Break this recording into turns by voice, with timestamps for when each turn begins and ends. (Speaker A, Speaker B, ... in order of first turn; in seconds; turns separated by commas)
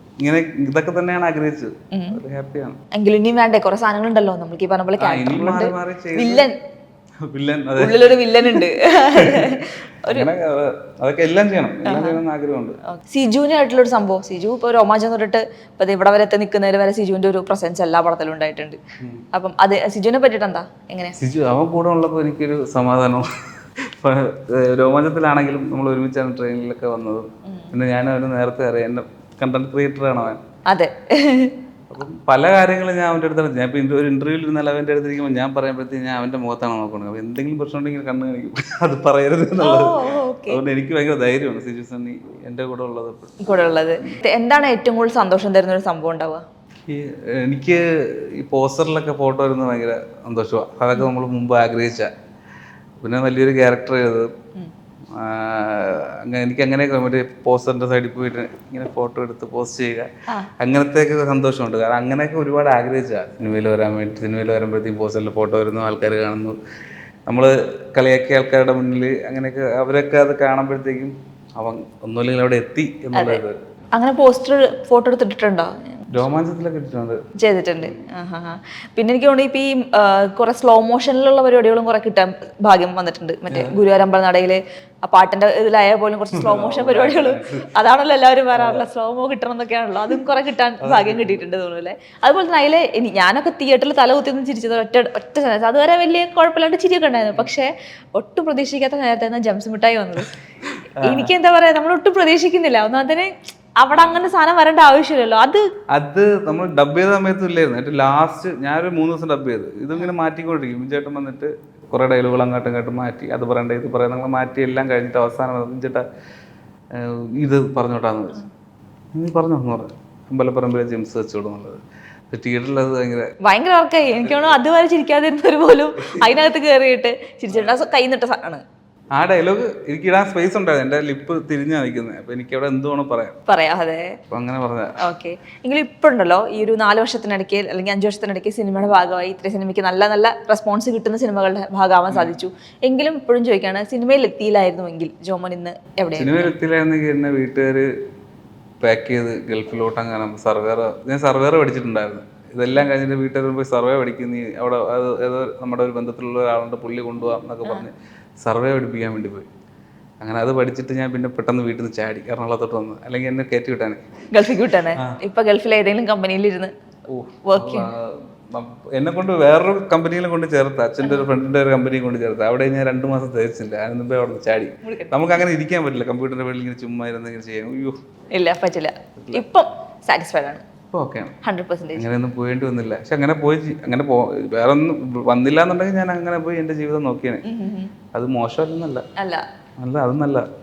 Speaker A: 0.2-2.8, Speaker B: 1.9-2.2, Speaker B: 2.9-6.5, Speaker A: 5.0-6.5, Speaker A: 7.2-12.8, Speaker B: 7.8-10.3, Speaker B: 11.8-12.2, Speaker B: 12.9-18.8, Speaker B: 19.3-21.1, Speaker A: 21.2-23.3, Speaker A: 23.9-30.4, Speaker B: 27.4-27.7, Speaker B: 30.7-31.5, Speaker A: 31.9-43.6, Speaker B: 39.6-40.6, Speaker B: 43.4-46.4, Speaker A: 46.9-52.1, Speaker A: 53.0-54.3, Speaker A: 55.1-66.6, Speaker A: 67.3-73.6, Speaker B: 73.1-73.4, Speaker B: 73.9-76.1, Speaker A: 76.1-77.2, Speaker B: 77.4-100.3, Speaker A: 83.5-83.8, Speaker A: 86.3-87.7, Speaker A: 88.5-88.8, Speaker A: 90.8-91.4, Speaker A: 101.0-101.3, Speaker B: 101.0-105.7, Speaker A: 103.9-104.2, Speaker A: 105.9-116.0, Speaker A: 116.9-118.4, Speaker A: 119.1-123.3, Speaker B: 123.4-128.6, Speaker A: 126.0-126.4, Speaker A: 127.5-127.8, Speaker A: 129.1-133.4, Speaker B: 133.5-134.2, Speaker A: 134.3-135.0, Speaker B: 135.0-146.5, Speaker A: 146.2-147.9, Speaker A: 148.8-159.5, Speaker A: 160.2-164.0, Speaker B: 164.3-166.7, Speaker A: 167.1-178.0, Speaker B: 167.4-167.9, Speaker B: 171.0-171.3, Speaker B: 174.8-175.2, Speaker B: 178.3-180.6, Speaker A: 179.2-179.4, Speaker A: 180.9-181.4, Speaker B: 181.4-182.1, Speaker A: 181.9-187.4, Speaker B: 187.4-187.9, Speaker A: 188.1-189.0, Speaker B: 189.2-189.4, Speaker A: 189.8-190.4